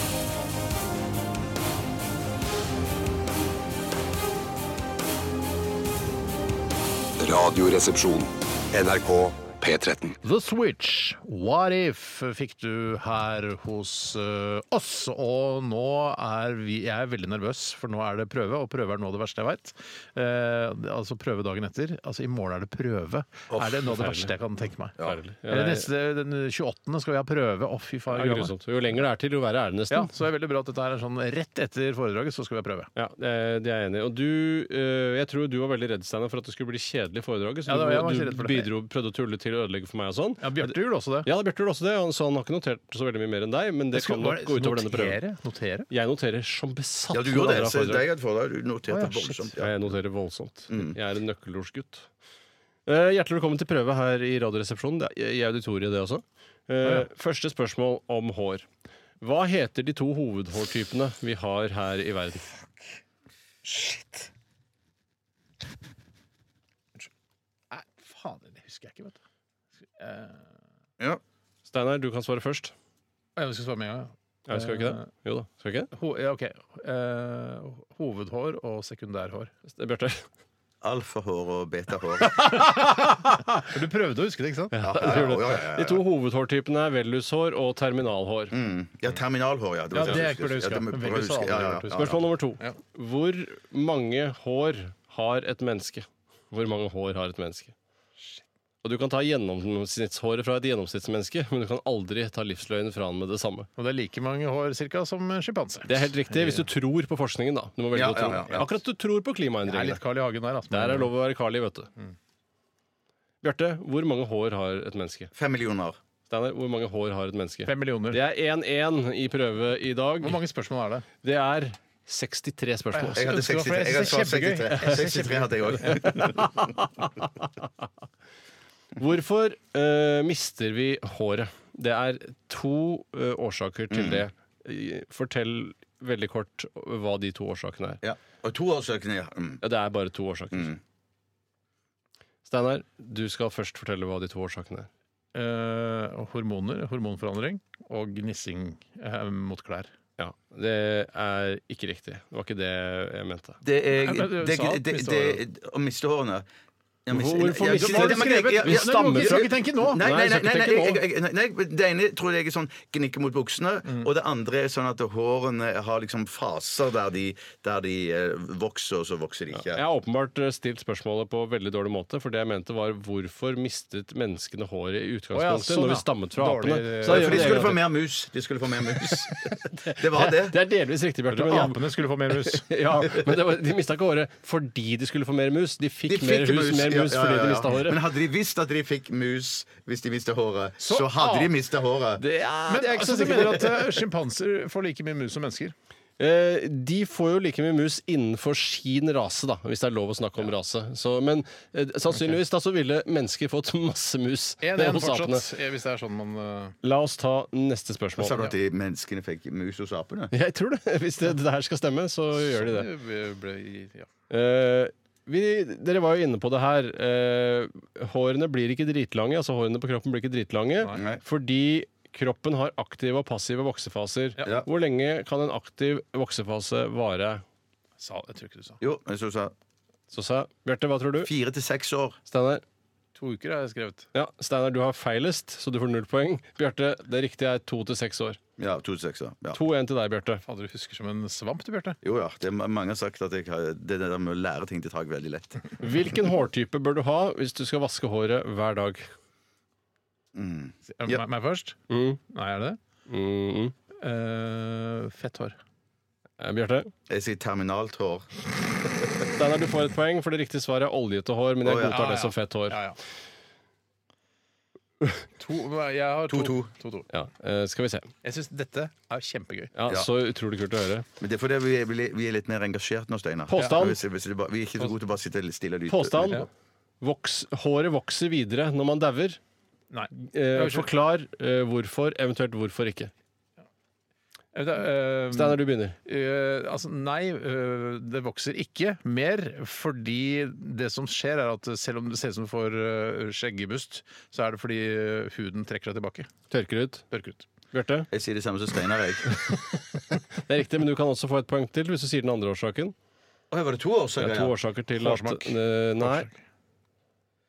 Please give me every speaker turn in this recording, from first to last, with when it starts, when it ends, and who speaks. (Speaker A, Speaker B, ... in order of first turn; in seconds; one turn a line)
Speaker A: 7.2-10.2
Speaker B: 10.2-24.9
Speaker C: 23.5-23.9
Speaker D: 23.9-24.3
Speaker D: 25.0-25.9
Speaker B: 25.5-28.5
Speaker D: 28.1-30.1
Speaker B: 29.9-32.9
Speaker D: 33.0-45.2
Speaker B: 37.7-38.7
Speaker B: 40.4-41.3
Speaker B: 43.9-45.9
Speaker D: 45.9-48.0
Speaker C: 47.1-49.8
Speaker B: 48.9-49.5
Speaker D: 49.6-52.1
Speaker C: 50.7-51.0
Speaker D: 52.9-58.6
Speaker B: 56.8-57.1
Speaker D: 59.2-62.5
Speaker B: 67.7-69.2
Speaker B: 70.0-70.4
Speaker D: 71.7-72.7
Speaker B: 73.4-75.1
Speaker D: 74.5-75.9
Speaker B: 75.9-79.5
Speaker D: 79.7-80.2
Speaker C: 80.8-82.5
Speaker B: 82.3-84.8
Speaker D: 84.7-88.5
Speaker C: 84.8-86.0
Speaker C: 88.5-92.3
Speaker B: 89.9-92.0
Speaker D: 91.9-97.7
Speaker D: 98.8-103.7
Speaker B: 103.8-106.7
Speaker D: 105.9-110.0
Speaker C: 107.9-108.7
Speaker B: 109.6-111.1
Speaker D: 110.7-111.9
Speaker D: 113.4-115.3
Speaker C: 115.3-116.0
Speaker D: 116.3-120.4
Speaker B: 117.7-118.2
Speaker B: 120.2-121.0
Speaker D: 121.2-123.2
Speaker B: 122.9-126.2
Speaker C: 123.1-126.7
Speaker D: 126.0-127.1
Speaker D: 129.0-138.0
Speaker C: 133.9-134.2
Speaker C: 138.0-139.6
Speaker D: 139.6-140.8
Speaker C: 140.5-140.8
Speaker D: 142.4-144.9
Speaker B: 145.3-149.9
Speaker D: 150.2-153.6
Speaker C: 153.6-156.4
Speaker B: 154.0-155.4
Speaker C: 157.1-169.8
Speaker D: 157.1-161.0
Speaker B: 157.6-160.1
Speaker D: 169.7-177.8
Speaker B: 175.3-177.8
Speaker C: 177.0-180.6
Speaker D: 180.0-188.0
Speaker B: 181.3-182.7
Speaker C: 186.1-192.2
Speaker B: 190.8-191.5
Speaker D: 192.2-194.0
Speaker B: 192.7-195.7
Speaker D: 196.2-205.5
Speaker B: 204.6-206.7
Speaker D: 206.8-208.4
Speaker C: 208.2-210.3
Speaker D: 210.3-212.9
Speaker B: 212.3-214.1
Speaker D: 214.3-227.4
Speaker C: 220.9-221.2
Speaker C: 224.4-224.7
Speaker B: 228.0-228.8
Speaker C: 228.8-229.5
Speaker D: 230.1-231.3
Speaker C: 231.2-232.2
Speaker D: 232.3-232.6
Speaker B: 233.2-234.1
Speaker D: 234.1-238.4
Speaker C: 238.6-239.6
Speaker D: 239.5-240.4
Speaker B: 240.5-242.0
Speaker C: 242.0-245.8
Speaker D: 245.8-249.1
Speaker C: 250.3-251.2
Speaker B: 250.9-251.8
Speaker D: 251.9-252.2
Speaker B: 252.3-252.8
Speaker D: 253.1-253.7
Speaker B: 254.0-255.6
Speaker D: 256.4-256.9
Speaker C: 257.1-258.3
Speaker D: 259.3-262.8
Speaker C: 261.6-262.0
Speaker B: 261.9-263.0
Speaker B: 265.4-267.1
Speaker C: 266.3-266.7
Speaker D: 267.1-268.1
Speaker B: 268.2-269.7
Speaker D: 269.7-271.1
Speaker C: 271.2-276.4
Speaker D: 273.5-274.0
Speaker B: 273.6-273.9
Speaker D: 275.9-276.5
Speaker D: 277.0-279.4
Speaker B: 279.9-280.9
Speaker D: 280.2-283.1
Speaker B: 284.5-296.3
Speaker D: 285.3-286.0
Speaker D: 296.5-297.1
Speaker B: 297.1-297.5
Speaker D: 297.7-298.1
Speaker C: 298.1-299.3
Speaker D: 299.5-302.9
Speaker C: 303.5-304.5
Speaker D: 304.2-306.3
Speaker B: 305.0-306.4